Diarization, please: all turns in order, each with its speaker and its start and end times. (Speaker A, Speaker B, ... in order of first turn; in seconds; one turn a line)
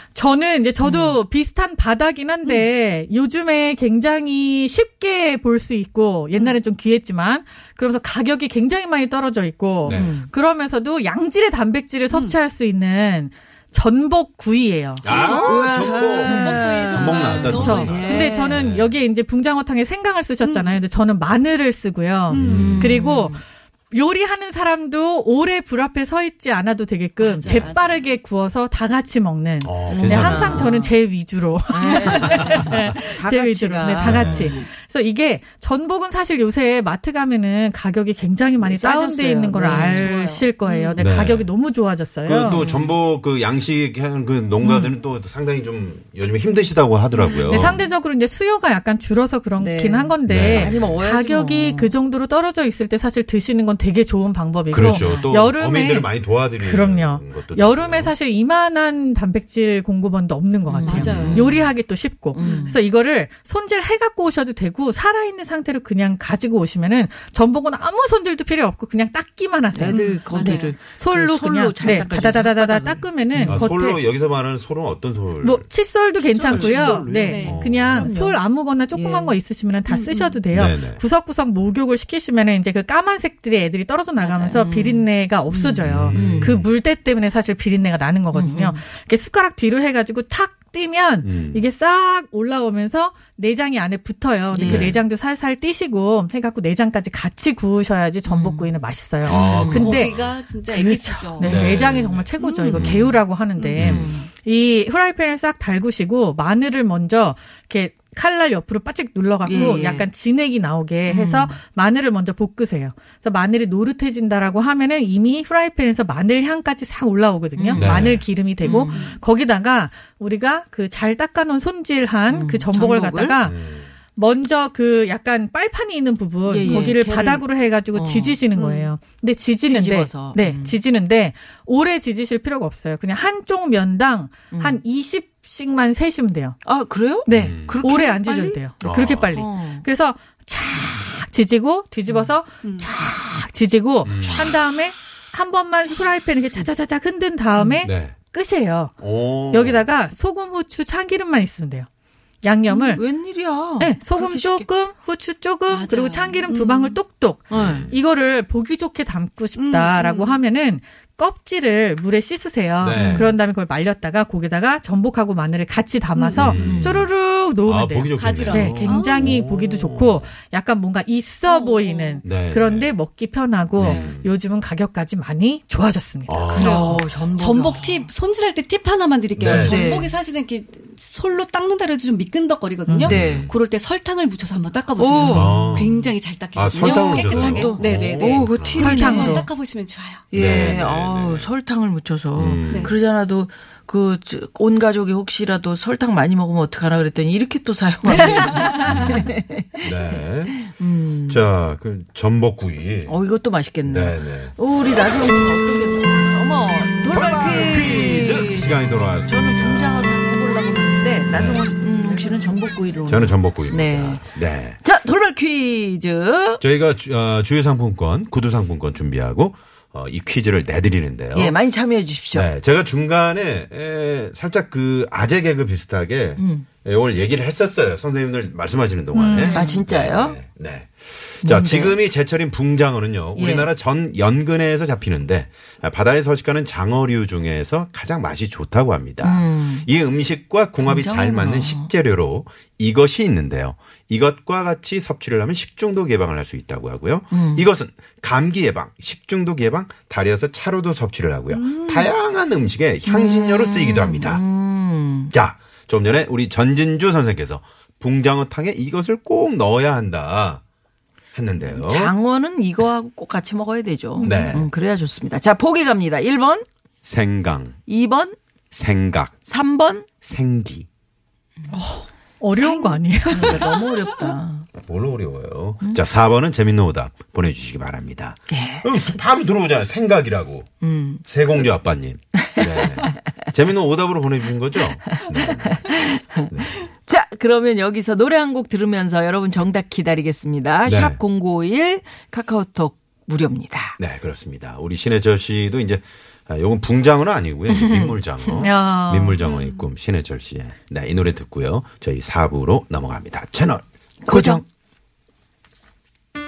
Speaker A: 0.1-15.1
Speaker B: 0.8-1.2
Speaker C: 9.8-10.2
Speaker B: 9.9-10.3
Speaker D: 12.1-12.4
Speaker C: 15.0-19.0
Speaker D: 15.1-18.4
Speaker B: 15.1-18.6
Speaker A: 16.2-16.7
Speaker A: 17.4-42.6
Speaker D: 20.4-20.8
Speaker D: 22.3-22.8
Speaker C: 22.3-23.0
Speaker B: 22.5-23.4
Speaker D: 27.2-28.1
Speaker C: 29.6-30.7
Speaker B: 29.9-30.9
Speaker B: 31.7-34.7
Speaker C: 34.0-34.5
Speaker B: 38.6-41.0
Speaker C: 39.7-40.0
Speaker C: 41.0-41.5
Speaker C: 42.2-47.8
Speaker B: 42.5-43.0
Speaker B: 44.6-44.9
Speaker D: 47.1-47.8
Speaker A: 47.5-74.0
Speaker B: 49.6-51.9
Speaker C: 50.3-51.0
Speaker C: 54.7-58.1
Speaker B: 54.8-55.3
Speaker B: 60.7-61.8
Speaker D: 60.9-61.5
Speaker C: 61.1-61.5
Speaker B: 62.3-62.8
Speaker D: 62.4-62.7
Speaker B: 69.7-73.7
Speaker D: 69.9-70.8
Speaker C: 73.4-78.1
Speaker A: 75.4-100.1
Speaker D: 76.5-77.7
Speaker B: 76.8-79.4
Speaker D: 79.9-80.4
Speaker C: 80.5-81.0
Speaker B: 84.2-86.6
Speaker C: 85.8-86.7
Speaker B: 88.3-88.8
Speaker C: 91.2-91.7
Speaker B: 94.5-95.0
Speaker C: 94.6-95.0
Speaker B: 98.2-98.7
Speaker C: 99.2-100.4
Speaker D: 99.3-101.7
Speaker B: 99.4-99.9
Speaker A: 100.7-123.6
Speaker C: 101.4-103.2
Speaker D: 102.4-102.8
Speaker B: 102.7-104.3
Speaker C: 103.8-104.1
Speaker B: 109.5-110.1
Speaker B: 111.0-111.6
Speaker B: 117.6-117.9
Speaker C: 117.8-118.3
Speaker B: 118.6-119.2
Speaker D: 118.8-119.2
Speaker B: 122.3-123.4
Speaker C: 123.4-123.9
Speaker A: 124.1-136.6
Speaker B: 126.5-128.9
Speaker B: 129.7-130.8
Speaker B: 134.5-134.8
Speaker B: 136.7-138.6
Speaker A: 137.2-151.9
Speaker C: 137.3-137.8
Speaker C: 138.8-139.3
Speaker B: 139.3-139.9
Speaker B: 142.1-142.3
Speaker D: 142.6-142.9
Speaker C: 144.1-144.6
Speaker B: 147.6-147.8
Speaker C: 147.8-148.2
Speaker C: 149.0-149.9
Speaker A: 152.4-153.1
Speaker B: 152.7-154.7
Speaker A: 153.8-176.5
Speaker D: 155.7-157.0
Speaker B: 157.5-157.9
Speaker C: 157.5-158.0
Speaker D: 159.6-160.4
Speaker C: 162.8-163.4
Speaker B: 162.9-163.3
Speaker D: 166.2-166.5
Speaker C: 166.3-170.3
Speaker B: 166.6-167.1
Speaker D: 168.2-169.3
Speaker D: 171.5-172.2
Speaker C: 172.2-173.0
Speaker C: 173.8-174.3
Speaker D: 173.8-174.1
Speaker C: 176.3-177.0
Speaker B: 176.5-178.1
Speaker D: 176.5-190.2
Speaker C: 179.4-179.8
Speaker B: 179.5-180.2
Speaker A: 182.9-183.2
Speaker C: 183.0-183.6
Speaker B: 183.1-183.5
Speaker B: 185.0-185.7
Speaker C: 185.2-186.0
Speaker C: 186.5-188.9
Speaker B: 186.8-189.4
Speaker A: 188.8-189.5
Speaker B: 190.3-201.4
Speaker C: 190.3-191.5
Speaker C: 192.4-192.9
Speaker D: 192.7-192.9
Speaker D: 198.1-199.1
Speaker C: 198.8-200.7
Speaker C: 201.3-203.2
Speaker B: 203.1-216.6
Speaker C: 203.8-204.6
Speaker C: 207.1-210.0
Speaker C: 211.3-211.7
Speaker C: 213.1-214.8
Speaker C: 216.6-221.6
Speaker B: 221.3-222.5
Speaker C: 222.3-254.4
Speaker B: 226.4-226.7
Speaker A: 229.1-229.7
Speaker B: 229.4-230.4
Speaker B: 231.4-232.0
Speaker B: 233.3-233.7
Speaker B: 239.2-239.9
Speaker B: 240.8-241.9
Speaker B: 247.3-247.7
Speaker D: 251.5-252.1
Speaker B: 253.1-255.3
Speaker C: 255.3-260.6
Speaker C: 261.4-262.1
Speaker B: 261.7-266.7
Speaker C: 264.2-264.7
Speaker A: 264.2-264.6
Speaker C: 267.0-267.8
Speaker B: 267.9-268.4
Speaker C: 268.7-269.4
Speaker B: 269.4-270.2
Speaker C: 270.2-270.9
Speaker A: 271.7-273.8
Speaker B: 272.5-274.7
Speaker C: 274.8-280.7
Speaker B: 278.5-278.9
Speaker B: 280.8-281.7
Speaker C: 281.3-285.9
Speaker B: 282.6-283.1
Speaker B: 285.1-294.0
Speaker C: 286.5-286.8
Speaker C: 290.9-291.2
Speaker C: 294.0-304.6
Speaker B: 297.7-298.6
Speaker A: 298.6-299.4
Speaker D: 299.4-299.8
Speaker B: 304.2-304.6